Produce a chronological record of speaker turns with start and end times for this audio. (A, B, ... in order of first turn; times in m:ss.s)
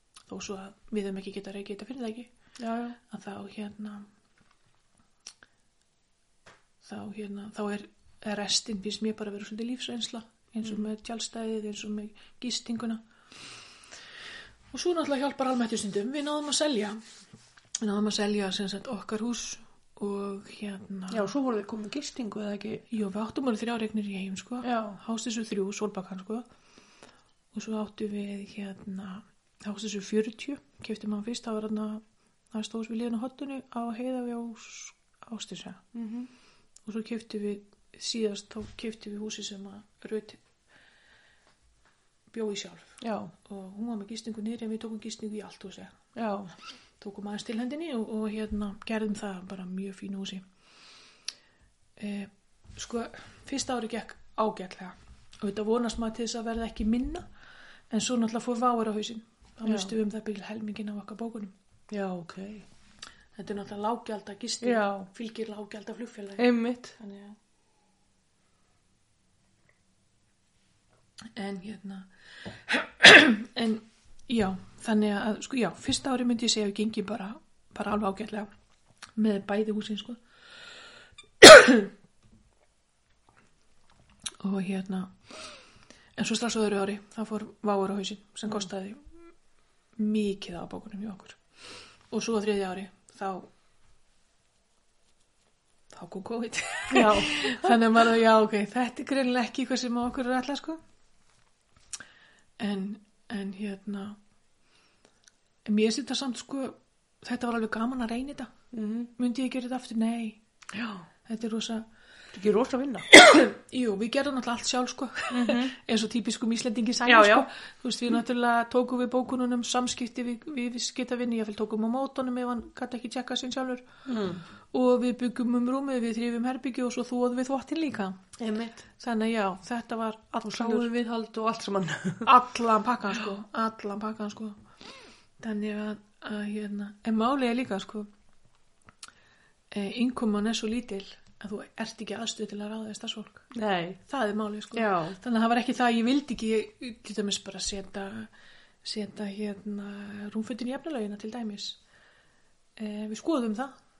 0:00.3-0:02.3 A
0:02.6-0:03.0 B
0:03.1-0:04.1 A
0:06.8-0:13.0 A
0:14.7-0:17.0 A
0:17.8-0:21.3 A
0:21.1-0:22.8 B
0:22.9-0:26.5 A
0:24.6-0:25.0 B
0:27.5-0:35.8 A
0:35.9-0:36.3 B
0:36.9-0:40.4 A
0:42.3-0:46.0 A
0:43.0-0:43.3 B
0:46.2-0:46.5 B
0:47.0-0:50.4 A
0:52.0-0:57.3 A
0:57.9-1:01.5 A
0:59.6-0:59.9 B
1:01.9-1:02.7 B
1:03.4-1:07.4 A
1:04.6-1:05.1 B
1:06.4-1:07.0 B
1:11.4-1:18.5 A
1:19.2-1:20.2 A
1:21.4-1:21.9 A
1:24.4-1:25.2 A
1:26.2-1:29.1 A
1:30.0-1:31.4 A
1:32.1-1:33.5 A
1:35.9-1:40.8 A
1:36.9-1:37.8 B
1:42.6-1:44.2 A
1:45.7-1:48.5 A
1:48.7-1:49.1 B
1:49.2-1:50.4 A
1:50.7-1:51.1 B
1:51.3-1:51.9 A
1:52.3-1:53.1 B
1:53.1-2:03.9 A
1:55.3-1:55.7 B
1:57.1-1:57.5 B
2:04.1-2:04.4 B
2:04.7-2:08.2 A
2:08.4-2:08.8 B
2:09.0-2:10.9 A
2:10.4-2:12.3 B
2:12.2-2:14.6 A
2:15.4-2:18.1 A
2:19.7-2:23.5 A
2:23.5-2:24.0 B
2:24.1-2:28.3 A
2:24.7-2:25.2 B
2:28.8-2:31.8 A
2:32.8-2:33.8 A